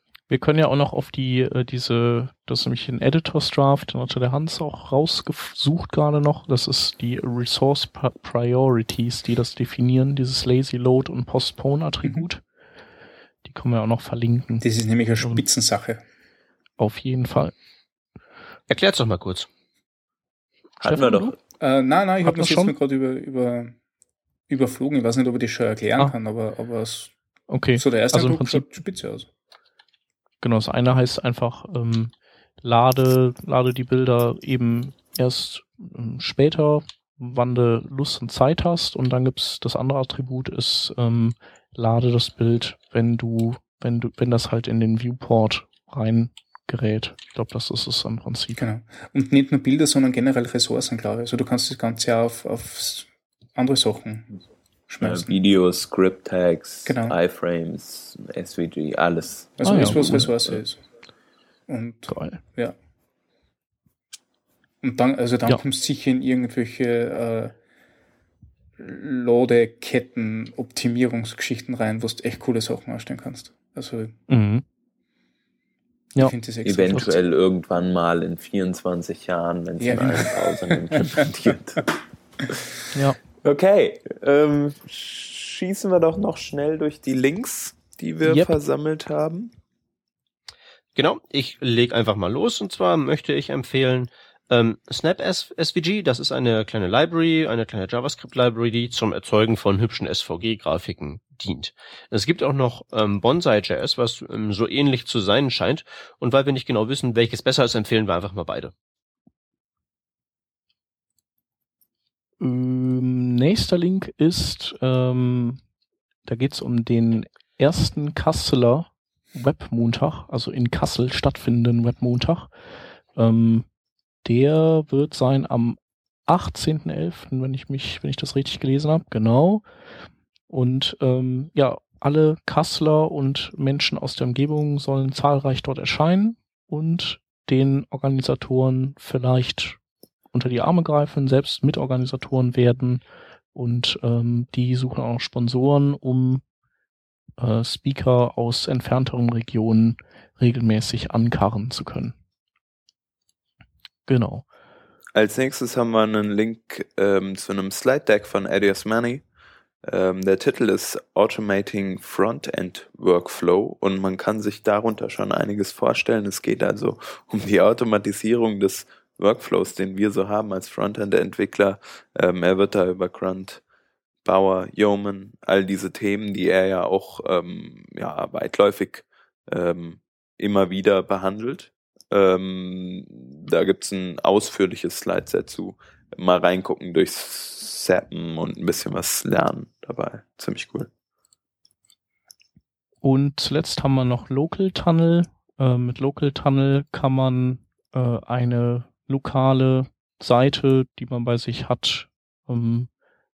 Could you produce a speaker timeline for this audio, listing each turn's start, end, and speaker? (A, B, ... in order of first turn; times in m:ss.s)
0:00.3-0:12.4 A
0:13.4-0:14.6 A
0:14.6-0:16.0 B
0:16.8-0:17.5 A
0:18.7-0:19.5 C
0:20.8-0:21.4 D
0:20.8-0:21.3 A
0:21.6-0:23.8 B
0:22.2-0:22.7 A
0:24.5-0:27.1 B
0:27.5-0:28.7 A
0:27.8-0:29.3 B
0:30.4-0:48.6 A
0:48.6-0:54.3 B
0:54.9-0:55.4 B
0:55.0-1:00.6 D
0:56.8-0:57.2 B
0:59.6-1:00.8 B
0:59.6-1:00.3 A
1:01.7-1:02.8 B
1:02.1-1:02.4 A
1:04.8-1:07.6 B
1:08.8-1:14.2 B
1:14.3-1:14.6 A
1:16.2-1:17.2 B
1:16.6-1:21.9 D
1:19.8-1:21.3 B
1:22.9-1:23.2 A
1:23.4-1:29.5 D
1:28.2-1:28.5 A
1:31.0-1:48.7 C
1:52.4-1:55.6 A
1:56.3-2:02.5 A
2:03.2-2:03.7 A
2:04.2-2:09.6 A
2:10.5-2:19.8 A
2:20.3-2:23.0 A
2:23.6-2:26.4 A
2:27.4-2:32.1 A
2:34.1-2:34.4 A
2:35.2-2:39.2 D
2:39.9-2:53.6 D
2:54.2-3:10.9 D
3:13.0-3:22.9 A